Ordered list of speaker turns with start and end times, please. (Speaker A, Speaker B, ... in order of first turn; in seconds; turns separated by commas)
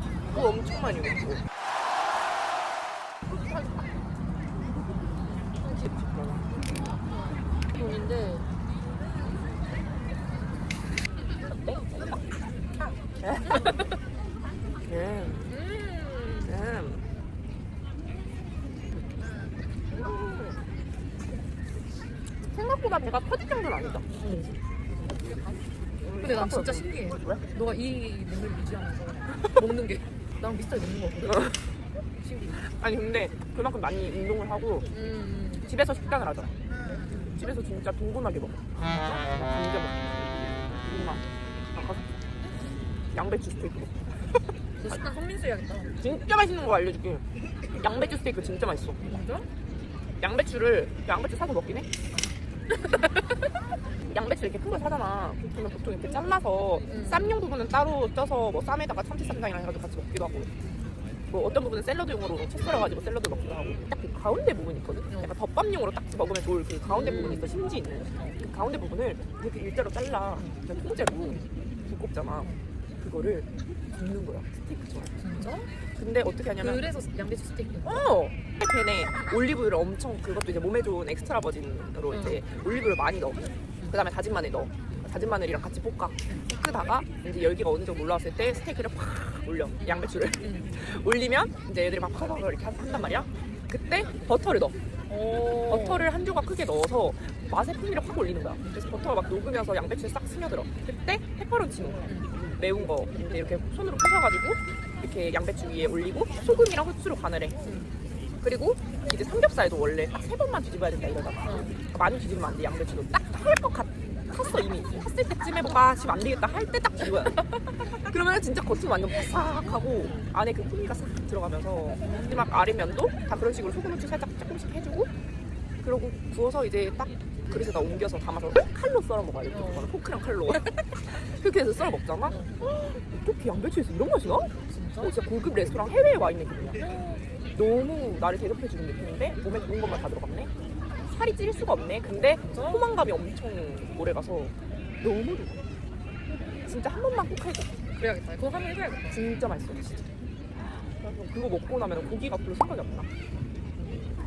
Speaker A: 0.3-1.4, Speaker A: 5.6-6.8, Speaker B: 6.9-8.5, Speaker A: 11.6-12.2, Speaker A: 13.2-13.7, Speaker B: 13.5-13.8, Speaker A: 14.9-15.5, Speaker B: 15.5-16.6, Speaker A: 16.4-17.0, Speaker A: 19.9-20.6, Speaker A: 22.5-24.1, Speaker B: 24.2-25.6, Speaker A: 26.0-27.4, Speaker B: 26.2-31.5, Speaker A: 31.2-31.6, Speaker B: 32.2-32.7, Speaker A: 32.7-34.9, Speaker B: 34.9-35.7, Speaker A: 35.6-36.5, Speaker B: 36.8-37.4, Speaker A: 37.4-41.2, Speaker A: 41.7-42.1, Speaker A: 43.1-44.1, Speaker B: 44.8-45.9, Speaker A: 46.0-49.0, Speaker B: 49.0-49.5, Speaker A: 50.2-51.9, Speaker A: 54.1-60.5, Speaker B: 56.9-57.4, Speaker A: 61.3-72.5, Speaker B: 66.9-67.5, Speaker B: 71.2-71.5, Speaker B: 72.3-72.6, Speaker A: 73.0-73.5, Speaker A: 74.0-75.2, Speaker B: 75.2-75.7, Speaker A: 76.0-76.8, Speaker B: 76.4-78.0, Speaker A: 77.8-94.8, Speaker B: 82.1-82.4, Speaker B: 89.8-90.8, Speaker B: 95.1-96.1, Speaker A: 95.6-107.5, Speaker B: 102.0-102.3, Speaker B: 107.6-107.9, Speaker A: 108.4-125.1, Speaker B: 111.4-111.8, Speaker B: 122.0-122.3, Speaker A: 125.8-130.7, Speaker B: 129.5-129.9, Speaker A: 131.3-136.8, Speaker B: 132.2-132.6, Speaker B: 134.6-135.2, Speaker B: 136.8-137.2, Speaker A: 137.5-140.5, Speaker A: 141.1-145.6, Speaker B: 142.5-143.0, Speaker A: 146.7-147.8, Speaker B: 147.9-149.2, Speaker A: 149.1-150.0, Speaker A: 150.8-153.1